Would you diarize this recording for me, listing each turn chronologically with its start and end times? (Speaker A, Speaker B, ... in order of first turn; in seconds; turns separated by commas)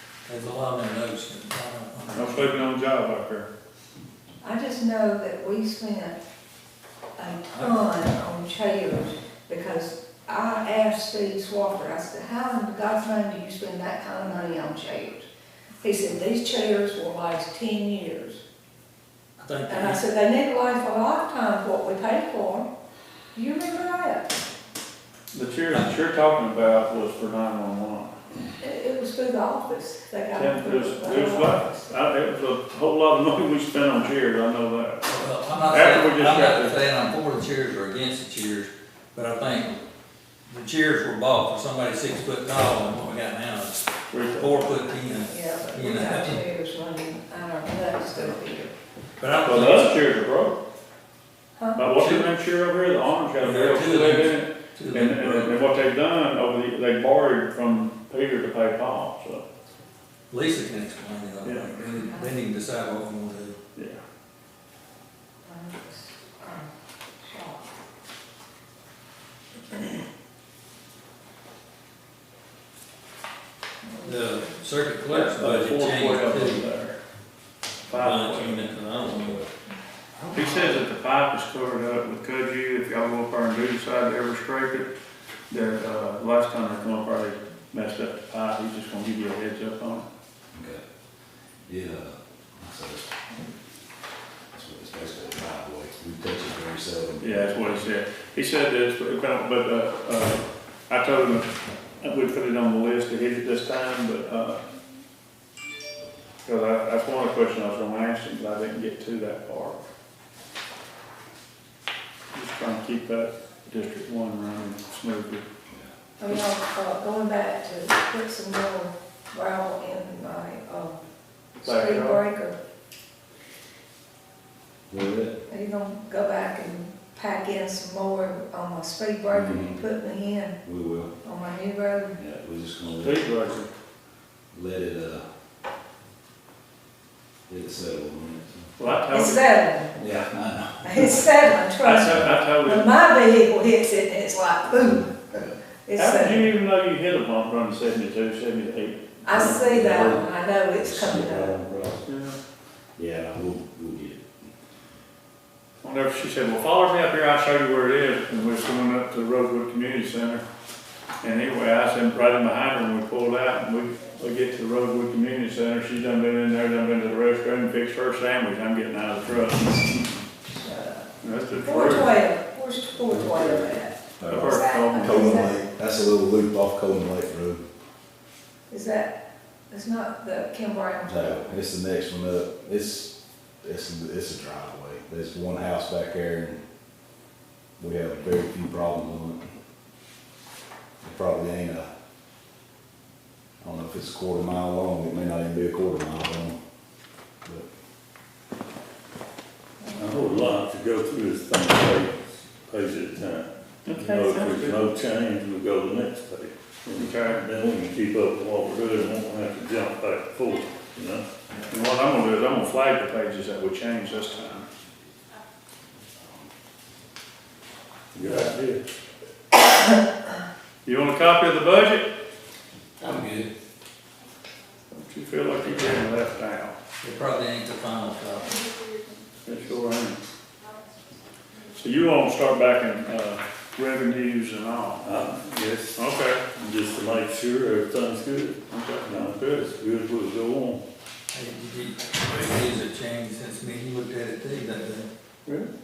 Speaker A: 0.3-2.6, Speaker B: 2.1-3.5, Speaker C: 4.4-6.2, Speaker C: 7.2-15.3, Speaker A: 7.5-7.8, Speaker C: 15.8-18.4, Speaker A: 19.4-20.0, Speaker C: 19.7-22.7, Speaker C: 23.4-24.4, Speaker B: 25.3-28.1, Speaker C: 28.6-31.9, Speaker B: 30.3-35.0, Speaker A: 35.1-39.8, Speaker B: 35.7-36.8, Speaker A: 40.5-46.4, Speaker B: 44.1-44.8, Speaker C: 45.3-48.7, Speaker A: 49.2-50.0, Speaker B: 49.4-50.6, Speaker C: 51.6-51.9, Speaker B: 51.8-59.5, Speaker A: 51.8-52.3, Speaker A: 53.4-55.6, Speaker A: 60.3-63.6, Speaker B: 61.4-61.7, Speaker C: 62.1-62.3, Speaker B: 63.8-64.0, Speaker C: 65.5-66.7, Speaker C: 67.2-67.6, Speaker C: 69.7-70.0, Speaker C: 73.8-74.7, Speaker A: 74.0-76.6, Speaker B: 75.1-77.0, Speaker B: 77.9-78.8, Speaker A: 77.9-79.4, Speaker D: 79.1-79.5, Speaker B: 80.3-84.9, Speaker B: 85.5-90.1, Speaker D: 90.5-90.8, Speaker D: 91.7-93.2, Speaker D: 94.5-97.7, Speaker B: 97.2-104.6, Speaker B: 106.5-109.8, Speaker B: 112.3-115.5, Speaker C: 116.2-121.0, Speaker C: 121.6-122.6, Speaker B: 121.6-122.2, Speaker D: 124.9-125.4, Speaker C: 125.5-130.6, Speaker D: 129.3-129.8, Speaker D: 130.7-131.1, Speaker C: 131.2-132.2, Speaker D: 132.2-133.3, Speaker B: 133.0-133.7, Speaker D: 134.5-135.2, Speaker D: 137.5-138.7, Speaker B: 138.8-139.6, Speaker C: 139.1-140.0, Speaker D: 140.0-141.2, Speaker C: 140.8-145.1, Speaker B: 141.8-142.9, Speaker D: 144.8-145.5, Speaker C: 145.8-146.6, Speaker B: 146.0-149.8, Speaker C: 149.2-151.6, Speaker E: 149.4-150.2, Speaker E: 150.8-152.0, Speaker B: 152.1-152.4, Speaker D: 153.0-154.2, Speaker B: 155.8-160.4, Speaker B: 161.2-170.1, Speaker C: 170.5-175.6, Speaker B: 171.2-172.2, Speaker D: 174.2-177.6, Speaker B: 174.2-175.2, Speaker C: 178.7-179.2, Speaker C: 179.7-181.4, Speaker D: 181.1-186.6, Speaker D: 187.8-189.5, Speaker D: 191.0-191.9, Speaker D: 193.6-196.6, Speaker E: 199.9-211.2, Speaker B: 203.9-204.8, Speaker B: 206.9-207.4, Speaker B: 211.7-214.7, Speaker E: 218.2-218.8, Speaker B: 220.8-222.1, Speaker D: 223.0-223.3, Speaker B: 224.9-226.8, Speaker A: 227.0-228.7, Speaker B: 229.4-230.2, Speaker B: 231.8-235.2, Speaker E: 235.0-236.0, Speaker B: 235.9-236.5, Speaker E: 236.5-240.8, Speaker B: 238.7-239.3, Speaker A: 241.3-245.1